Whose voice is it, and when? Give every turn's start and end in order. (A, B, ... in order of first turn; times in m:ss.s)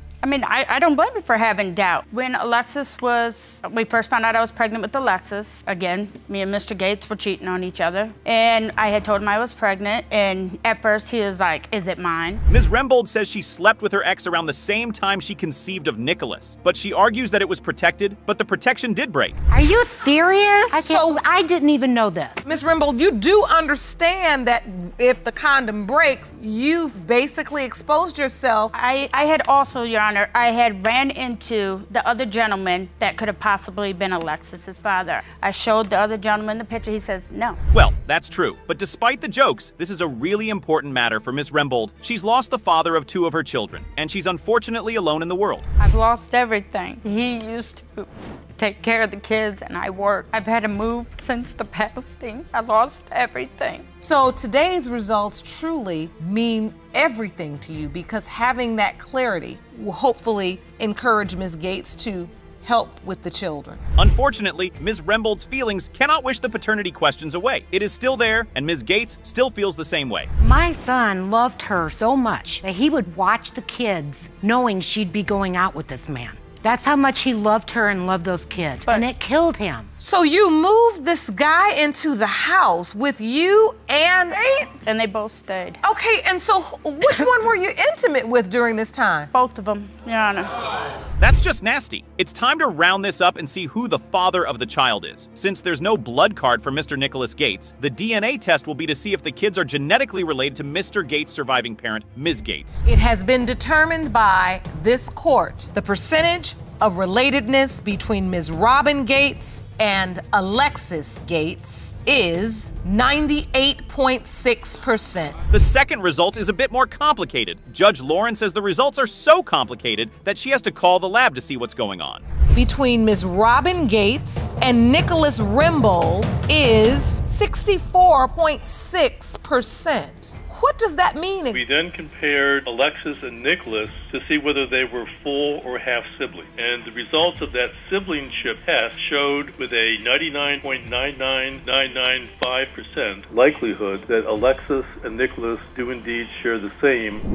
0:00.2-0:12.4 A
0:12.5-0:19.4 B
0:19.5-0:22.4 C
0:20.7-0:21.2 D
0:22.4-0:28.7 D
0:28.7-0:37.6 A
0:37.7-0:45.7 B
0:45.8-0:53.8 A
0:54.0-1:03.8 D
1:04.0-1:10.3 B
1:10.4-1:19.9 C
1:20.0-1:24.7 D
1:24.8-1:25.8 A
1:25.8-1:29.3 D
1:29.3-1:30.6 A
1:31.2-1:42.8 B
1:42.9-1:55.4 D
1:55.5-2:02.2 B
2:02.5-2:11.6 D
2:11.5-2:27.2 E